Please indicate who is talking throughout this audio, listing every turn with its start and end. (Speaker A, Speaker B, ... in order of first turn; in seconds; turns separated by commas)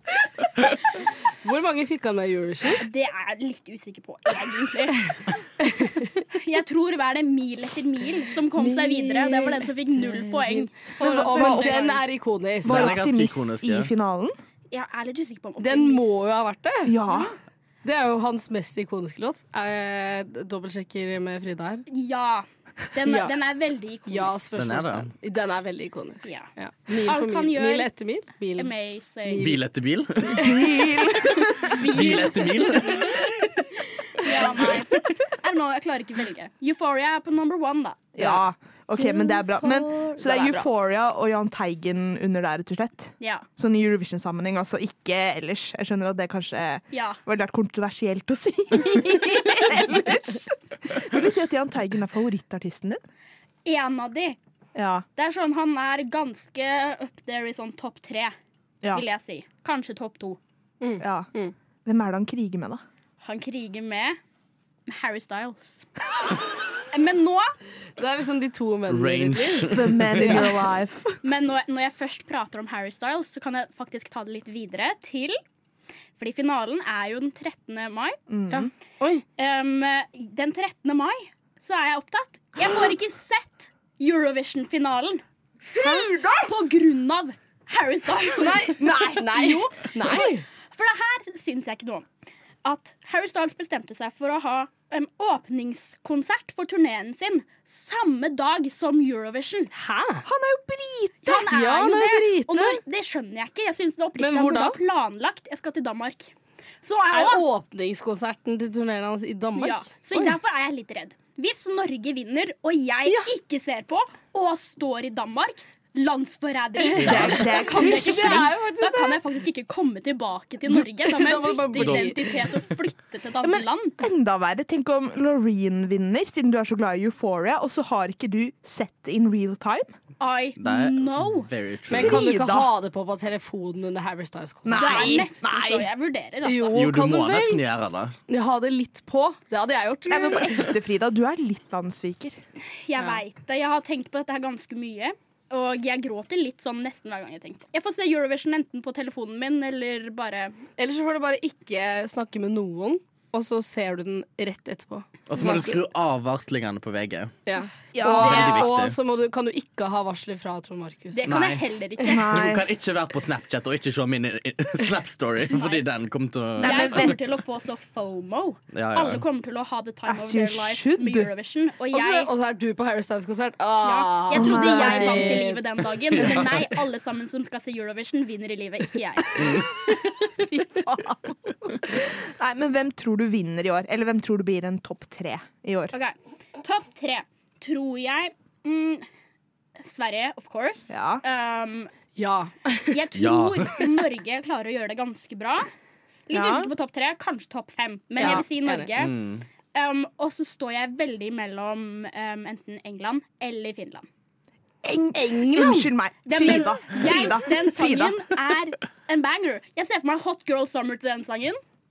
Speaker A: 1.4-2.8, Speaker B: 2.8-5.3, Speaker A: 5.7-6.0, Speaker B: 6.3-12.0, Speaker A: 8.5-13.0, Speaker C: 11.0-11.9, Speaker D: 12.6-13.9, Speaker C: 12.6-14.3, Speaker B: 14.7-16.3, Speaker A: 15.6-16.9, Speaker C: 16.8-17.3, Speaker A: 17.8-21.8, Speaker B: 21.9-24.5, Speaker A: 23.0-23.3, Speaker A: 24.1-28.7, Speaker D: 24.5-25.1, Speaker B: 26.2-27.9, Speaker B: 28.5-29.4, Speaker A: 29.2-29.6, Speaker D: 29.4-30.6, Speaker A: 30.3-30.5, Speaker C: 30.3-31.8, Speaker B: 31.2-33.2, Speaker D: 31.8-33.0, Speaker B: 34.1-38.1, Speaker A: 34.2-34.7, Speaker C: 38.1-53.0, Speaker A: 39.0-40.1, Speaker B: 40.0-40.6, Speaker B: 43.2-43.5, Speaker B: 46.9-47.2, Speaker B: 53.6-54.4, Speaker C: 54.7-55.0, Speaker B: 55.1-58.3, Speaker B: 58.9-60.4, Speaker A: 60.8-61.5, Speaker C: 61.0-61.3, Speaker C: 61.8-62.8, Speaker B: 63.2-64.2, Speaker B: 64.9-65.8, Speaker B: 66.9-67.5, Speaker A: 68.0-70.5, Speaker D: 68.9-70.2, Speaker C: 69.7-71.2, Speaker B: 71.2-75.4, Speaker B: 76.2-78.2, Speaker C: 78.3-78.7, Speaker A: 78.5-79.2, Speaker B: 79.4-85.2, Speaker C: 85.7-86.5, Speaker B: 85.7-92.1, Speaker A: 88.4-90.4, Speaker C: 88.8-89.4, Speaker B: 92.6-99.7, Speaker A: 99.7-100.2, Speaker C: 100.2-101.5, Speaker B: 101.2-107.4, Speaker A: 101.5-102.8, Speaker A: 104.2-104.8, Speaker A: 107.1-110.3, Speaker B: 109.5-124.0, Speaker A: 116.8-119.2, Speaker D: 117.0-117.3, Speaker C: 117.0-118.5, Speaker A: 120.7-122.5, Speaker D: 121.8-122.0, Speaker C: 123.4-129.9, Speaker B: 130.2-131.5, Speaker D: 130.6-132.2, Speaker C: 131.9-132.7, Speaker A: 131.9-135.2, Speaker C: 134.6-135.9, Speaker B: 134.7-136.8, Speaker A: 136.4-137.6, Speaker D: 136.7-138.1, Speaker A: 138.3-140.7, Speaker C: 140.1-142.4, Speaker B: 142.7-150.6, Speaker A: 143.0-143.2, Speaker A: 150.8-155.8, Speaker D: 155.3-157.3, Speaker A: 157.5-161.3, Speaker C: 157.9-158.6, Speaker B: 158.2-158.6, Speaker D: 158.2-158.9, Speaker B: 161.1-162.4, Speaker D: 161.3-167.1, Speaker C: 162.0-162.7, Speaker B: 165.5-165.8, Speaker C: 166.6-167.2, Speaker B: 166.6-172.3, Speaker D: 168.7-169.2, Speaker C: 170.1-171.3, Speaker A: 171.9-176.7, Speaker B: 173.8-179.6, Speaker C: 174.3-175.5, Speaker D: 176.2-176.4, Speaker C: 180.3-185.9, Speaker B: 185.9-189.0, Speaker B: 189.8-191.9, Speaker C: 190.9-191.2, Speaker A: 192.2-193.0, Speaker B: 192.9-195.7, Speaker D: 193.2-193.8, Speaker B: 196.3-199.1, Speaker C: 196.3-196.7, Speaker A: 198.2-198.9, Speaker D: 199.0-199.4, Speaker B: 199.7-204.1, Speaker C: 204.8-208.2, Speaker A: 205.1-205.9, Speaker B: 206.2-211.6